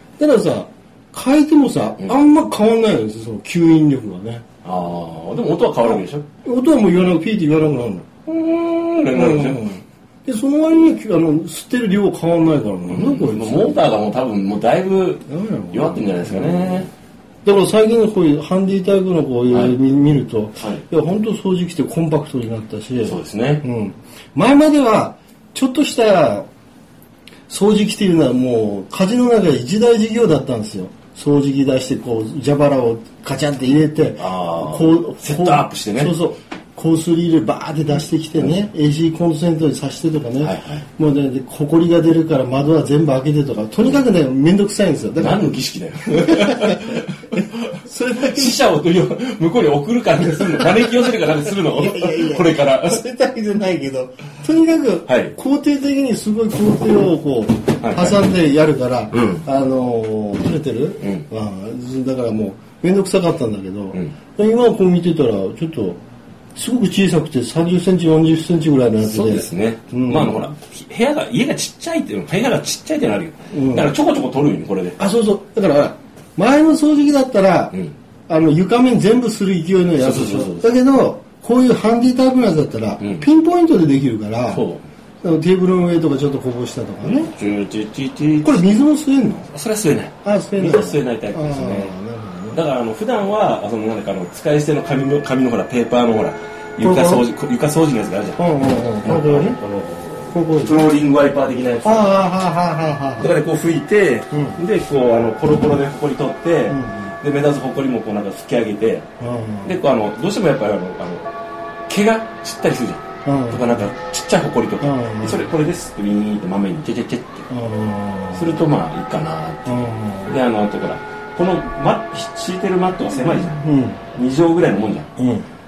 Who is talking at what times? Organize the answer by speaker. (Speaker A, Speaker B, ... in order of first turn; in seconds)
Speaker A: 0.2-4.4, 6.4-8.1, 9.1-13.8, 15.3-16.9, 17.4-26.5, 27.5-45.5, 46.1-48.6, 50.4-66.0, 66.5-70.5, 73.5-73.9, 75.0-77.8, 78.3-84.7, 85.2-87.3, 88.4-89.5, 90.2-92.6, 96.8-97.2, 98.4-99.6, 100.3-100.8, 101.8-103.3, 104.3-104.6, 106.7-107.2, 109.2-109.8, 113.2-113.8, 114.8-115.5, 117.5-118.6, 119.7-120.4, 123.6-124.0, 125.2-125.5
Speaker B: 4.6-6.3, 8.3-9.7, 12.8-16.9, 19.5-19.8, 20.6-20.8, 23.0-23.6, 34.2-36.1, 40.4-40.9, 45.2-53.0, 55.1-55.3, 57.8-58.3, 59.1-59.5, 61.0-61.3, 69.0-75.0, 80.0-80.7, 83.0-83.3, 84.5-84.8, 87.0-88.8, 89.5-92.0, 92.5-98.4, 99.0-102.3, 103.2-109.1, 109.6-111.3, 111.9-117.5, 118.3-125.1